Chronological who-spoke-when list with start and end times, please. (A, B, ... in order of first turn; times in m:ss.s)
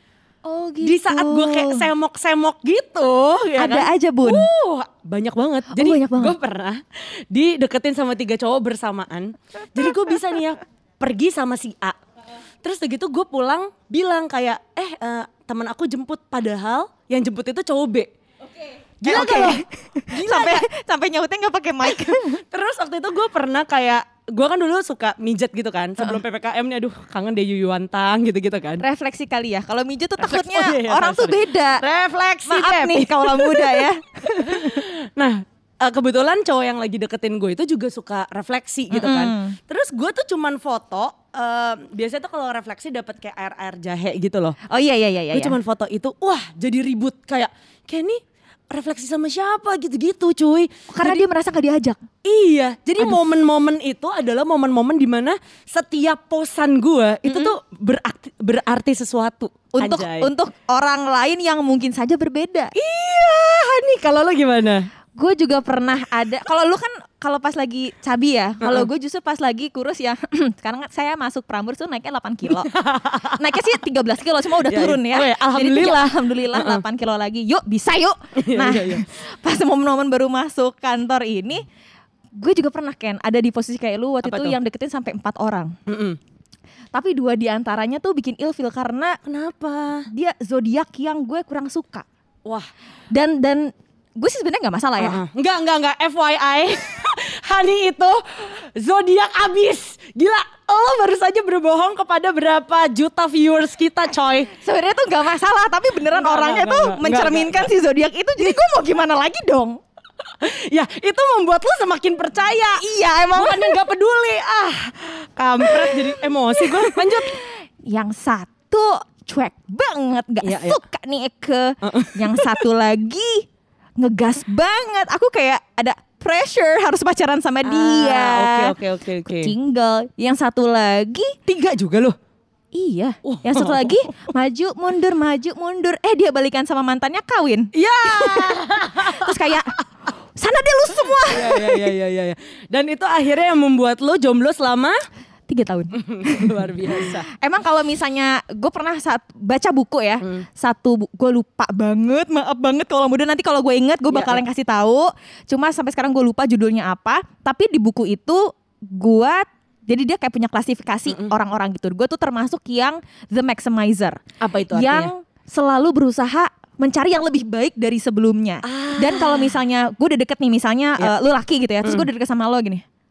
0:00.4-0:01.9 A
0:00.8-0:12.0 B
0:03.6-0:04.5 A
0:05.7-0:06.4 A
0:12.6-0:18.1 B
0:19.0-0:20.7 B
0:19.0-0:22.4 A
0:22.0-0:28.8 B
0:28.8-0:31.8 A
0:30.2-0:44.6 B
0:32.5-0:34.8 A
0:38.9-0:39.6 A
0:44.7-0:45.6 A
0:45.3-0:51.2 B
0:50.9-0:52.0 A
0:52.2-1:00.3 B
0:57.2-0:57.5 A
0:59.7-1:02.8 A
1:02.8-1:04.9 B
1:05.2-1:12.7 A
1:08.6-1:08.9 B
1:12.5-1:13.6 B
1:13.2-1:21.6 A
1:14.7-1:16.8 B
1:18.4-1:19.0 B
1:22.4-1:25.8 A
1:24.2-1:24.6 B
1:25.9-1:26.2 B
1:26.9-1:29.2 A
1:29.2-1:30.1 B
1:30.1-1:32.1 A
1:33.1-1:35.2 A
1:35.0-1:44.5 B
1:44.6-1:49.8 A
1:46.1-1:47.7 B
1:50.4-1:52.8 B
1:52.8-1:53.8 A
1:53.4-1:57.4 B
1:55.7-2:03.5 A
2:00.4-2:00.8 B
2:01.8-2:02.7 B
2:04.0-2:08.8 A
2:07.6-2:09.5 B
2:09.3-2:11.4 A
2:11.5-2:12.2 B
2:12.7-2:19.8 A
2:13.2-2:14.0 B
2:17.7-2:19.6 B
2:20.4-2:21.9 A
2:21.2-2:25.0 B
2:25.5-2:52.8 A
2:25.9-2:27.2 B
2:34.1-2:34.4 B
2:41.1-2:41.3 B
2:44.4-2:45.1 B
2:48.6-2:49.6 B
2:51.8-2:52.1 B